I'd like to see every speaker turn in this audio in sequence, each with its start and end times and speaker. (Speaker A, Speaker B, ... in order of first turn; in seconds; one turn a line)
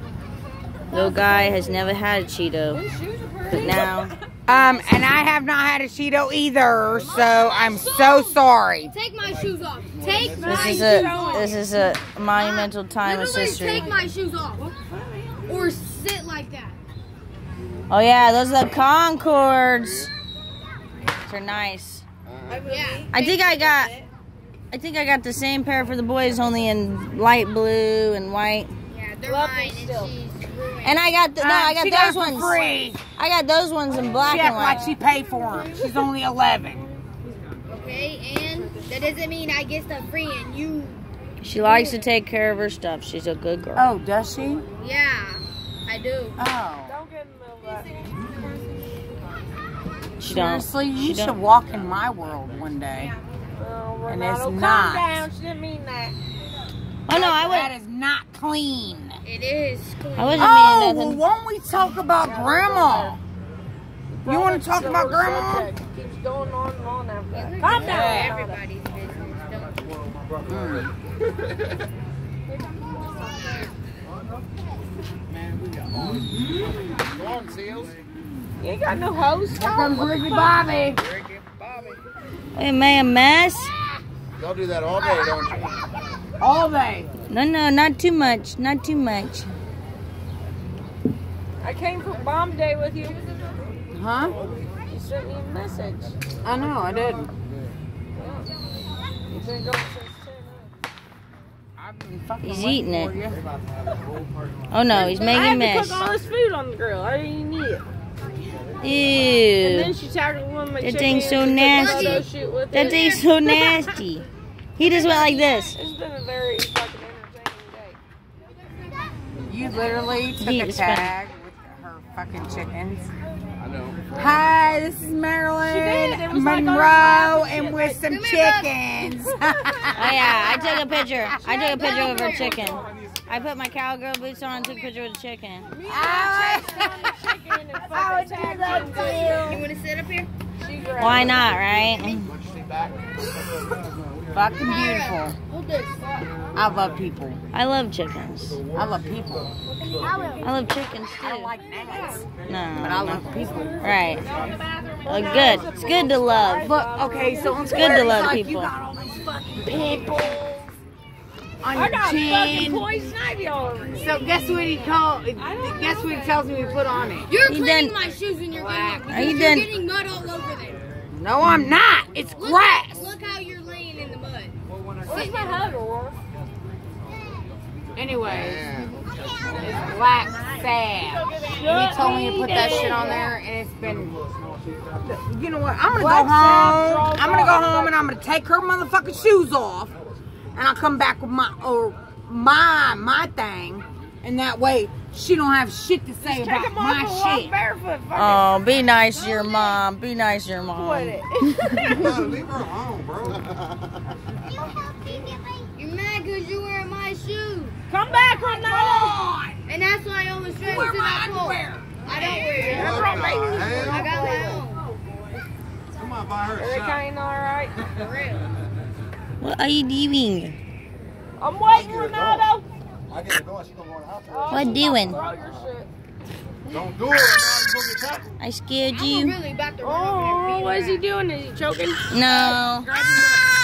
Speaker A: 0.9-2.8
Speaker B: 0.9-1.5
Speaker C: 2.7-4.8
Speaker A: 3.5-4.1
Speaker D: 4.5-8.9
Speaker B: 7.2-11.5
Speaker C: 10.2-11.7
Speaker A: 10.4-13.9
Speaker B: 12.3-14.7
Speaker C: 13.2-14.0
Speaker C: 14.6-15.6
Speaker B: 15.4-16.8
Speaker A: 17.9-20.1
Speaker A: 21.2-22.0
Speaker C: 22.5-23.2
Speaker B: 22.6-23.8
Speaker A: 23.1-23.9
Speaker A: 24.7-28.7
Speaker B: 28.9-31.0
Speaker C: 29.2-30.1
Speaker A: 30.8-34.9
Speaker D: 31.4-33.0
Speaker C: 34.0-36.0
Speaker D: 34.2-36.9
Speaker B: 37.7-41.0
Speaker A: 41.4-43.9
Speaker B: 41.6-42.1
Speaker D: 43.8-44.6
Speaker B: 44.8-46.4
Speaker D: 46.4-47.0
Speaker C: 46.9-47.9
Speaker A: 50.2-51.4
Speaker D: 50.2-53.1
Speaker C: 53.5-56.1
Speaker D: 54.1-55.2
Speaker A: 57.1-57.7
Speaker D: 57.1-59.2
Speaker B: 59.2-60.5
Speaker A: 60.1-61.2
Speaker D: 60.4-63.2
Speaker C: 62.2-63.2
Speaker C: 64.2-68.6
Speaker D: 64.2-65.7
Speaker B: 67.3-70.0
Speaker D: 67.7-68.3
Speaker D: 70.5-70.9
Speaker C: 72.6-73.7
Speaker E: 77.2-77.9
Speaker C: 78.6-80.7
Speaker D: 79.5-81.0
Speaker B: 81.4-82.0
Speaker A: 82.5-83.7
Speaker E: 84.4-85.5
Speaker D: 86.4-87.1
Speaker A: 87.3-89.5
Speaker C: 91.6-93.7
Speaker D: 93.9-94.3
Speaker C: 94.7-96.2
Speaker D: 96.4-97.3
Speaker C: 98.2-98.5
Speaker C: 99.3-100.7
Speaker D: 101.8-103.5
Speaker A: 102.4-103.1
Speaker A: 104.7-106.1
Speaker C: 104.9-107.8
Speaker A: 108.8-109.9
Speaker C: 109.6-113.9
Speaker A: 110.8-114.2
Speaker B: 111.7-113.2
Speaker A: 114.8-115.8
Speaker C: 114.8-118.0
Speaker D: 119.5-123.1
Speaker A: 120.4-121.1
Speaker D: 124.1-130.6
Speaker C: 125.6-128.0
Speaker B: 128.1-128.7
Speaker A: 129.9-135.7
Speaker B: 130.2-132.8
Speaker C: 135.8-139.6
Speaker D: 135.9-137.2
Speaker B: 135.9-136.5
Speaker D: 137.8-139.6
Speaker B: 138.6-140.3
Speaker C: 140.6-141.6
Speaker A: 141.0-142.3
Speaker E: 142.5-142.9
Speaker D: 144.3-145.3
Speaker B: 144.6-146.2
Speaker D: 146.5-147.4
Speaker A: 147.5-148.6
Speaker D: 148.7-149.5
Speaker B: 149.9-150.5
Speaker A: 150.4-151.5
Speaker D: 151.1-153.8
Speaker C: 151.8-152.3
Speaker A: 152.5-154.3
Speaker C: 154.1-158.3
Speaker A: 155.1-156.7
Speaker D: 156.6-160.4
Speaker A: 157.6-158.7
Speaker C: 159.6-160.7
Speaker D: 161.6-162.9
Speaker C: 161.7-164.2
Speaker D: 163.9-167.3
Speaker C: 165.4-167.0
Speaker B: 167.3-170.8
Speaker A: 167.5-167.9
Speaker A: 169.1-169.7
Speaker D: 171.1-173.1
Speaker B: 172.3-174.6
Speaker C: 175.0-176.2
Speaker B: 175.1-175.6
Speaker D: 177.9-178.9
Speaker D: 179.5-184.2
Speaker C: 181.3-183.3
Speaker D: 185.0-189.9
Speaker C: 185.9-188.0
Speaker D: 190.5-197.5
Speaker C: 196.2-198.5
Speaker A: 198.1-201.2
Speaker C: 199.1-199.8
Speaker C: 200.7-202.4
Speaker E: 202.4-203.4
Speaker B: 205.6-207.8
Speaker C: 207.9-209.2
Speaker D: 208.4-209.6
Speaker B: 209.7-214.8
Speaker D: 210.6-212.1
Speaker C: 212.1-215.2
Speaker D: 212.6-214.4
Speaker E: 216.0-216.5
Speaker C: 216.4-217.9
Speaker B: 217.9-218.5
Speaker A: 219.4-220.6
Speaker C: 221.4-222.6
Speaker E: 223.1-224.2
Speaker C: 224.3-225.9
Speaker A: 224.5-225.2
Speaker E: 226.7-228.3
Speaker A: 228.4-229.4
Speaker B: 228.9-231.0
Speaker C: 229.8-233.4
Speaker A: 232.1-232.9